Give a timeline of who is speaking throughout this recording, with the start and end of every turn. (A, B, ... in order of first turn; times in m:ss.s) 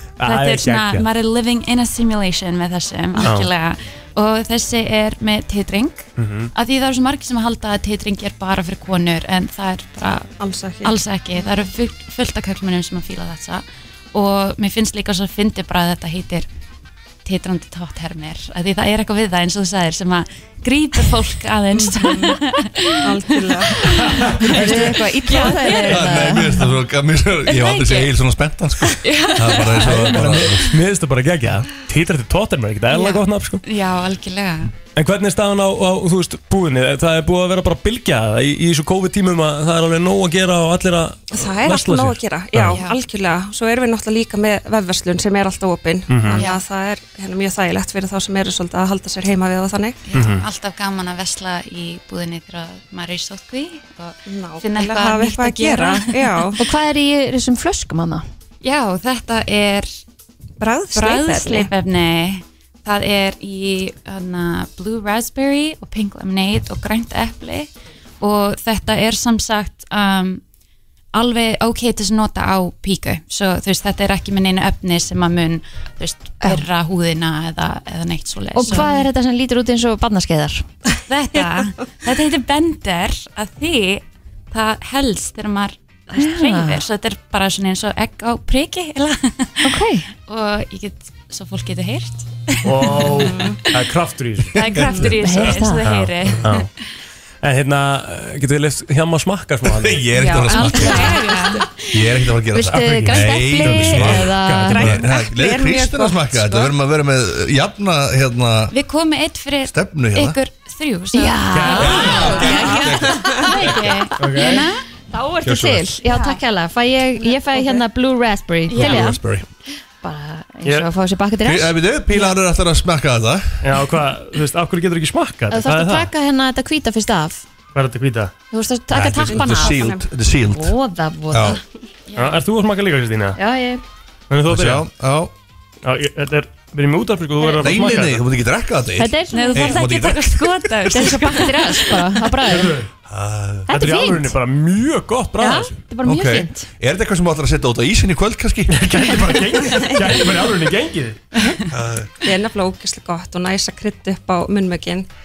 0:00.2-0:01.1 A
0:00.2-0:16.5 B
0:03.2-0:03.4 C
0:03.2-0:03.5 A
0:06.2-0:06.5 A
0:10.4-0:11.0 C
0:17.2-0:24.1 B
0:21.7-0:22.4 C
0:23.0-0:25.6 C
0:24.0-0:24.9 A
0:24.4-0:26.6 D
0:25.2-0:26.3 B
0:25.8-0:30.7 E
0:27.4-0:28.2 B
0:28.8-0:30.0 B
0:29.7-0:33.6 A
0:32.9-0:34.7 B
0:34.9-0:42.8 A
0:41.3-0:50.0 C
0:46.1-0:46.4 A
0:46.3-0:46.6 B
0:50.1-0:56.6 B
0:50.1-0:50.5 A
0:54.2-0:56.6 C
0:56.6-0:58.2 D
0:58.6-0:59.9 B
1:00.6-1:01.7 C
1:00.9-1:07.7 B
1:08.2-1:10.4 B
1:11.1-1:19.1 B
1:18.5-1:20.6 D
1:21.1-1:33.8 B
1:21.3-1:21.9 C
1:26.2-1:26.8 D
1:29.6-1:30.1 D
1:32.6-1:35.1 A
1:33.1-1:33.6 C
1:34.5-1:36.6 B
1:34.6-1:34.8 E
1:35.1-1:36.0 D
1:35.6-1:36.7 A
1:37.4-1:40.0 A
1:39.7-1:41.2 E
1:40.2-1:41.6 B
1:40.5-1:41.9 D
1:41.9-1:48.7 E
1:42.5-1:44.9 D
1:42.6-1:45.0 A
1:44.7-1:46.7 C
1:48.7-1:54.8 B
1:49.6-1:50.4 E
1:51.1-1:59.2 D
1:51.5-1:52.5 A
1:51.8-1:53.9 E
1:54.2-1:54.6 A
1:55.4-1:55.8 E
1:56.0-1:56.4 B
1:57.4-1:57.8 C
1:58.7-1:59.1 B
1:58.8-1:59.5 E
2:00.0-2:02.3 D
2:01.4-2:03.6 E
2:03.6-2:06.1 A
2:05.5-2:07.4 D
2:07.7-2:08.3 A
2:08.5-2:09.9 D
2:08.9-2:10.8 E
2:09.3-2:10.1 C
2:10.5-2:11.6 D
2:11.3-2:11.6 E
2:12.1-2:12.4 B
2:12.2-2:13.4 A
2:13.4-2:13.8 D
2:14.3-2:14.8 A
2:14.5-2:15.3 E
2:15.8-2:18.3 A
2:17.6-2:21.2 E
2:19.0-2:20.2 D
2:19.3-2:22.2 B
2:20.9-2:22.8 D
2:22.5-2:22.9 A
2:23.1-2:23.7 E
2:23.7-2:24.3 D
2:23.7-2:25.7 A
2:25.4-2:26.7 D
2:26.0-2:29.6 E
2:28.7-2:31.2 A
2:29.7-2:30.3 C
2:31.7-2:32.1 E
2:32.2-2:35.1 C